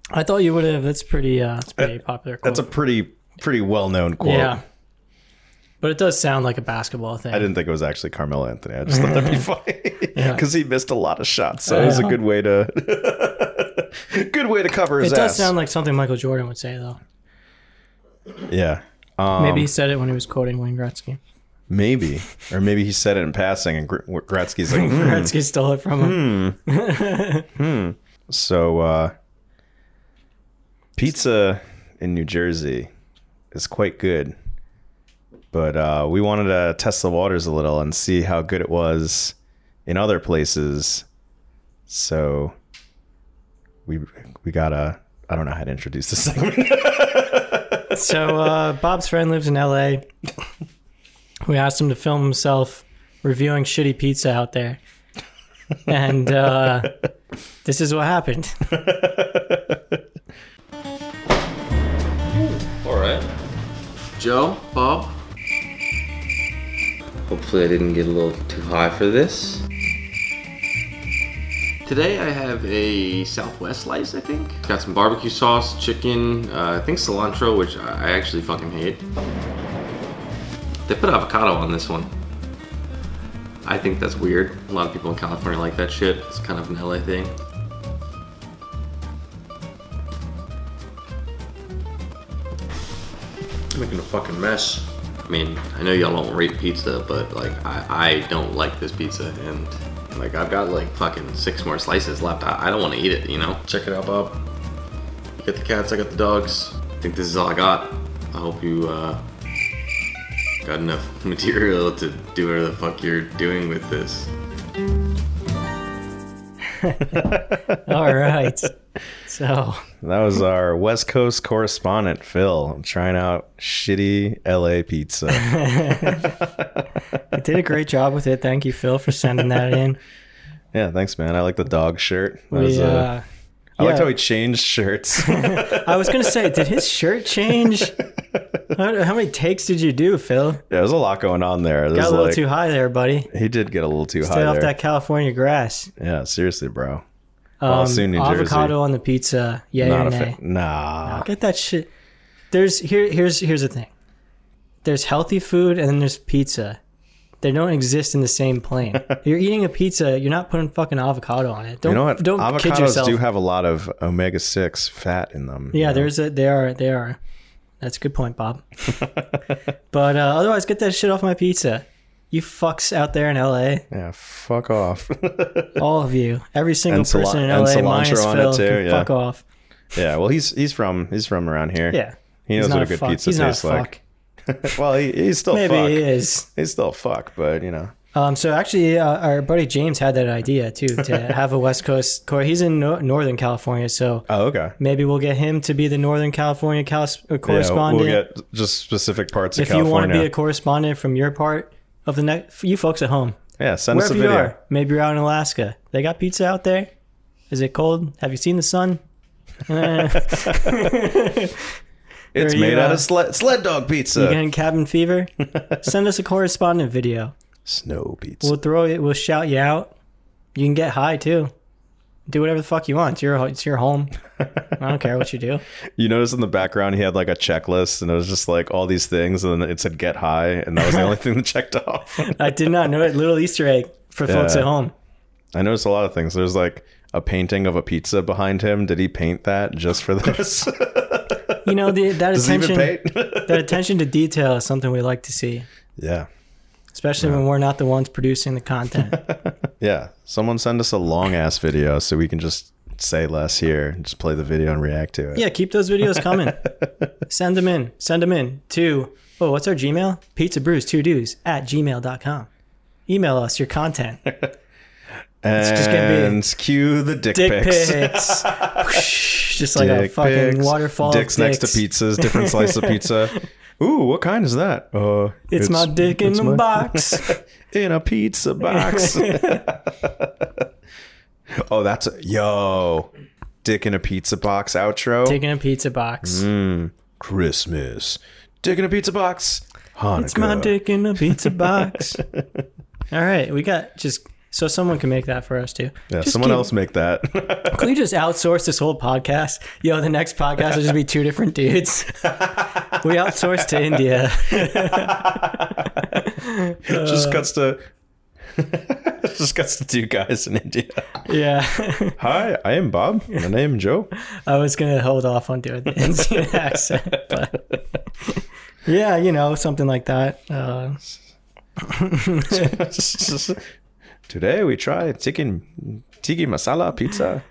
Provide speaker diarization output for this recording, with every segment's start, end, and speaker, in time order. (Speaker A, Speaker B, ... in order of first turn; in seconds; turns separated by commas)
Speaker A: 0.1-2.7, Speaker B: 2.4-4.6, Speaker A: 4.2-4.6, Speaker A: 5.8-7.5, Speaker B: 7.3-15.5, Speaker A: 8.9-9.4, Speaker A: 10.1-10.4, Speaker A: 11.7-12.2, Speaker A: 15.0-17.0, Speaker B: 18.5-19.7, Speaker A: 19.4-21.2, Speaker B: 21.7-25.3, Speaker A: 24.7-27.5, Speaker B: 26.0-26.6, Speaker B: 27.6-29.1, Speaker B: 31.0-32.9, Speaker B: 33.5-34.4, Speaker B: 35.5-39.4, Speaker B: 39.9-41.1, Speaker B: 41.9-42.5, Speaker B: 43.9-47.9, Speaker A: 47.9-50.1, Speaker A: 51.5-54.8, Speaker A: 55.9-57.0, Speaker A: 57.6-58.7, Speaker B: 58.7-60.0, Speaker C: 62.3-63.3, Speaker C: 64.2-65.2, Speaker C: 67.3-69.7, Speaker C: 71.8-79.0, Speaker C: 80.9-82.1, Speaker C: 83.6-87.3, Speaker C: 93.7-104.4, Speaker C: 105.4-109.2, Speaker C: 110.6-114.3, Speaker A: 116.8-118.7, Speaker B: 117.1-117.8, Speaker A: 119.3-119.9, Speaker B: 120.0-126.9, Speaker A: 125.3-126.3, Speaker A: 127.3-130.0, Speaker B: 130.7-133.1, Speaker A: 132.5-133.2, Speaker B: 133.8-136.6, Speaker A: 133.8-134.1, Speaker A: 135.2-138.0, Speaker A: 138.7-140.6, Speaker B: 140.7-142.4, Speaker A: 141.9-143.3, Speaker B: 143.3-144.7, Speaker A: 144.2-145.9, Speaker B: 146.0-147.0, Speaker A: 147.6-150.4, Speaker B: 147.7-148.8, Speaker B: 149.8-151.3, Speaker A: 151.0-151.9, Speaker A: 152.5-153.9, Speaker A: 154.8-156.8, Speaker A: 157.4-163.2, Speaker B: 161.8-166.1, Speaker A: 165.7-167.2, Speaker A: 167.8-169.0, Speaker A: 169.9-173.9, Speaker B: 173.9-175.8, Speaker A: 175.8-179.4, Speaker B: 176.9-179.1, Speaker B: 179.9-183.9, Speaker A: 181.9-184.0, Speaker B: 184.5-187.9, Speaker A: 185.5-186.5, Speaker A: 188.1-194.3, Speaker B: 191.0-191.3, Speaker B: 194.3-194.8, Speaker A: 194.8-198.2, Speaker B: 197.5-200.3, Speaker A: 199.6-203.4, Speaker B: 203.6-204.5, Speaker A: 203.9-206.9, Speaker A: 207.5-209.0, Speaker A: 209.7-211.8, Speaker B: 210.3-210.8, Speaker B: 212.3-214.4, Speaker A: 212.4-213.1, Speaker A: 214.2-217.3, Speaker B: 217.7-218.6, Speaker A: 218.4-219.9, Speaker A: 220.6-221.5, Speaker A: 222.3-224.2, Speaker A: 224.8-225.6, Speaker B: 226.0-232.3, Speaker A: 232.2-234.9, Speaker B: 234.3-234.7, Speaker B: 235.5-243.8, Speaker A: 241.7-245.7, Speaker B: 246.0-246.3, Speaker A: 246.9-249.3, Speaker B: 249.1-255.5, Speaker A: 255.3-256.7, Speaker B: 256.0-256.8, Speaker A: 257.3-262.5, Speaker A: 263.1-264.2, Speaker B: 264.3-264.5, Speaker B: 265.4-269.1, Speaker A: 265.6-266.4, Speaker A: 267.3-273.4, Speaker B: 269.7-280.7, Speaker A: 275.5-277.4, Speaker A: 278.7-279.6, Speaker B: 281.5-283.1, Speaker B: 283.6-285.4, Speaker A: 285.2-286.5, Speaker B: 286.2-292.6, Speaker A: 290.2-292.2, Speaker A: 293.1-296.7, Speaker B: 296.1-297.9, Speaker A: 297.7-307.4, Speaker B: 302.4-302.8, Speaker B: 303.6-306.1, Speaker B: 306.8-307.8, Speaker B: 308.5-311.2, Speaker A: 311.2-312.2, Speaker B: 312.2-314.1, Speaker A: 314.2-317.7, Speaker B: 316.1-317.5, Speaker A: 318.2-321.0, Speaker A: 321.8-322.8, Speaker B: 322.5-323.6, Speaker B: 324.3-327.4